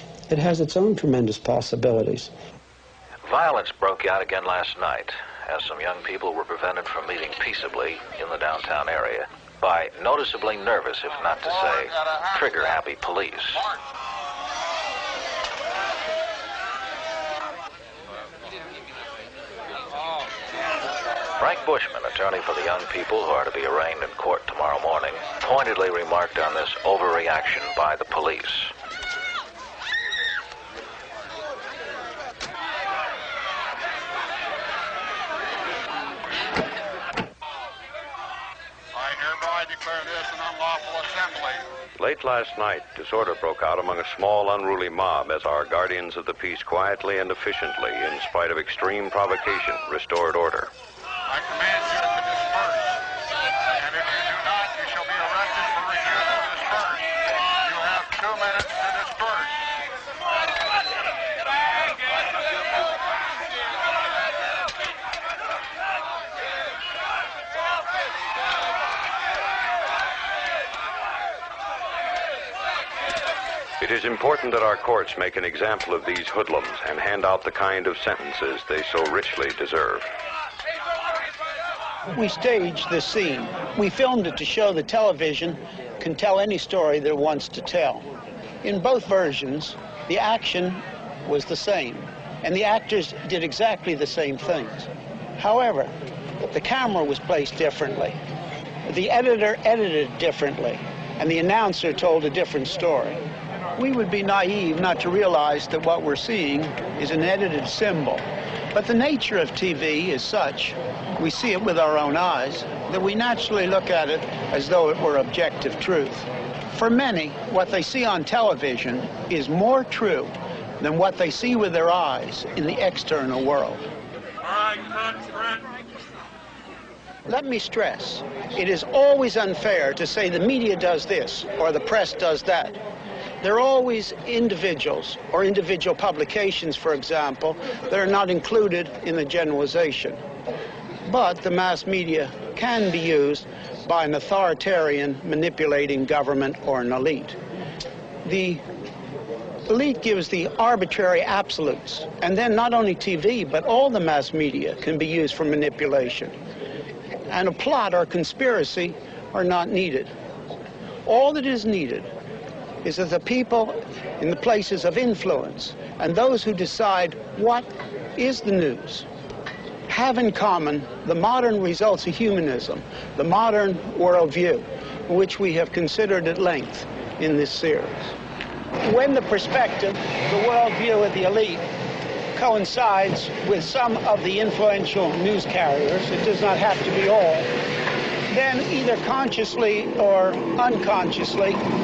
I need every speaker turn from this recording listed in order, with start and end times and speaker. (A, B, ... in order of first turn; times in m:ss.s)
0:00.3-0:02.3 A
0:03.2-0:13.7 B
0:21.4-0:28.7 B
0:38.9-0:41.6 C
0:42.0-0:50.7 D
0:51.3-0:52.9 C
0:53.8-0:57.1 C
0:57.6-0:59.6 C
1:13.8-1:20.1 D
1:22.1-1:28.1 A
1:28.6-1:35.9 A
1:36.4-1:38.2 A
1:38.9-1:43.2 A
1:43.8-1:48.2 A
1:48.7-2:03.8 A
2:04.6-2:05.5 C
2:07.3-2:12.8 A
2:13.4-2:20.2 A
2:21.1-2:27.4 A
2:28.2-2:28.6 A
2:29.7-2:36.3 A
2:37.3-2:40.1 A
2:41.0-2:42.1 A
2:42.8-2:49.1 A
2:49.9-2:58.2 A
2:58.8-3:01.6 A
3:02.3-3:07.5 A
3:08.3-3:11.6 A